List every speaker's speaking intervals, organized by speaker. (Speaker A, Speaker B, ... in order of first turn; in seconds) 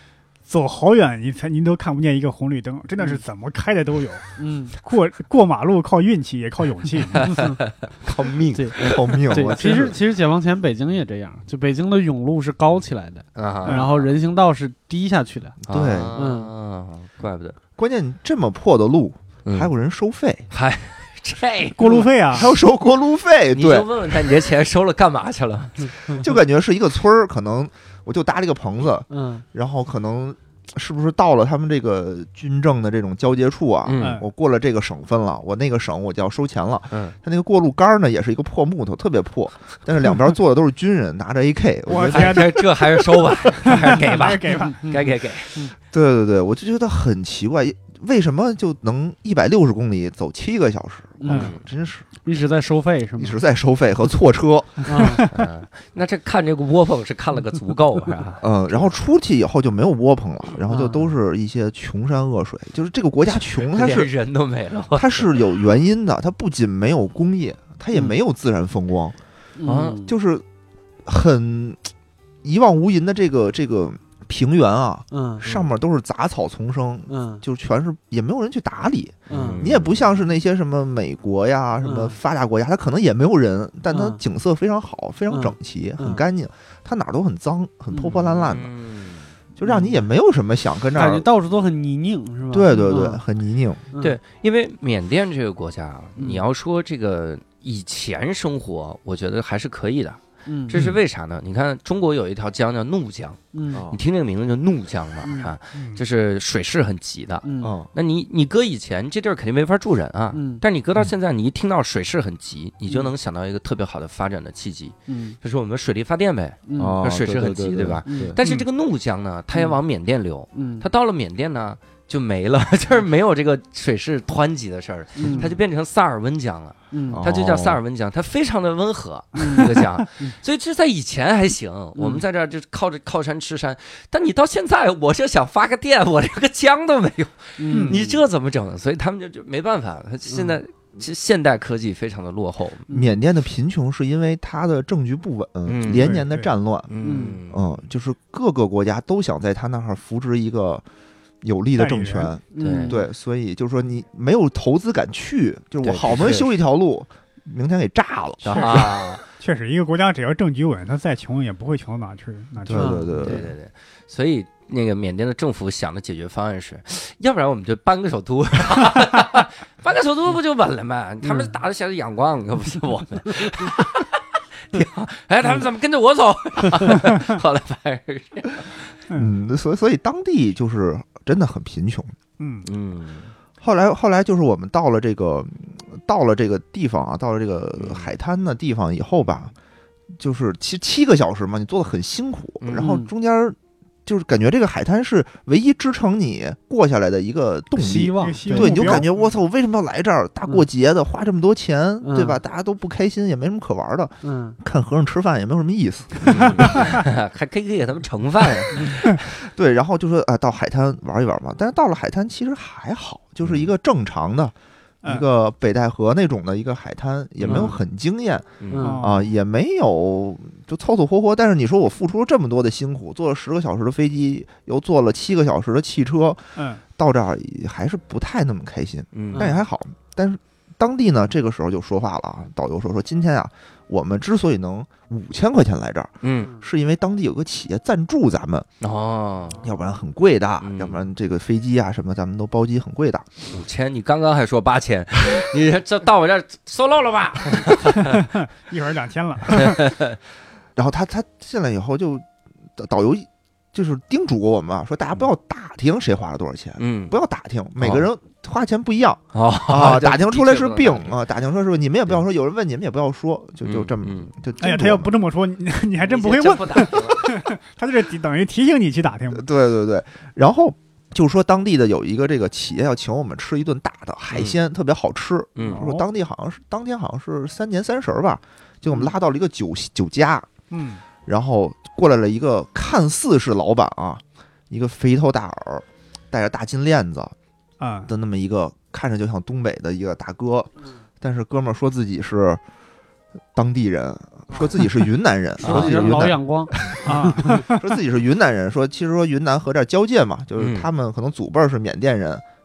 Speaker A: 0.5-4.2, 4.8-7.4, 13.6-13.9, 21.8-22.5, 34.0-34.2, 41.9-42.7, 43.6-44.8, 105.7-106.0, 118.4-118.7, 137.7-138.0, 145.9-146.5, 151.8-152.3, 158.5-163.1, 182.4-182.7, 198.2-199.1, 218.8-219.3, 226.6-226.8, 247.9-249.9, 264.6-269.5, 275.7-276.0, 280.7-281.0, 287.8-288.1, 297.1-297.8
Speaker B: 4.4-4.8, 7.2-7.6, 8.5-15.6, 16.1-16.5, 29.1-29.4, 44.5-45.7, 51.2-51.5, 52.2-53.4, 54.8-55.3, 60.7-61.1, 69.6-70.2, 75.1-75.5, 77.1-77.4, 79.3-79.6, 81.8-82.2, 83.9-84.2, 85.3-86.2, 89.6-90.0, 91.0-93.2, 93.9-94.2, 96.2-96.4, 100.5-100.8, 103.5-103.8, 105.2-105.5, 107.4-107.7, 110.3-110.6, 115.1-115.4, 116.7-117.0, 118.0-118.4, 120.5-120.9, 125.2-125.5, 126.9-127.2, 129.4-130.4, 131.9-132.2, 137.6-138.2, 142.9-143.1, 147.0-147.4, 152.5-153.1, 162.7-163.1, 171.2-171.5, 192.7-193.1, 197.8-199.1, 202.0-202.4, 204.2-204.6, 217.4-217.8, 218.7-219.0, 229.3-229.6, 295.6-297.6
Speaker C: 7.8-9.9, 13.3-14.1, 15.7-17.6, 20.5-22.4, 23.5-26.1, 33.8-34.2, 42.0-45.5, 51.3-51.6, 55.3-58.9, 63.4-65.5, 69.6-70.0, 75.4-75.7, 79.3-80.1, 88.3-89.3, 94.0-142.9, 145.7-146.2, 146.9-147.7, 152.6-153.0, 155.8-156.5, 158.4-159.2, 163.2-174.2, 174.7-178.9, 182.6-183.3, 187.8-188.1, 192.6-192.9, 206.2-209.2, 217.4-217.8, 218.6-219.0, 229.1-229.5, 236.2-236.5, 238.8-239.6, 240.6-241.0, 243.5-248.2, 249.6-250.2, 256.8-257.1, 257.8-258.1, 259.3-261.2, 263.6-264.3, 266.0-267.4, 274.3-274.6, 275.6-275.8, 295.6-296.3, 300.6-300.9
Speaker D: 8.2-9.9, 15.6-16.2, 17.8-20.5, 22.3-23.9, 26.1-44.0, 45.9-52.0, 53.2-55.3, 58.4-64.1, 64.9-69.2, 70.0-70.5, 71.0-71.9, 72.4-88.7, 89.5-91.3, 92.5-93.8, 103.7-104.0, 107.6-107.9, 116.8-118.4, 127.1-127.8, 142.9-146.9, 147.5-150.8, 151.4-159.0, 162.6-163.5, 179.1-182.1, 183.6-189.5, 190.2-207.0, 208.7-238.7, 239.6-243.4, 250.8-252.2, 252.8-265.1, 269.3-280.5, 281.3-287.3, 288.1-292.6, 293.6-302.4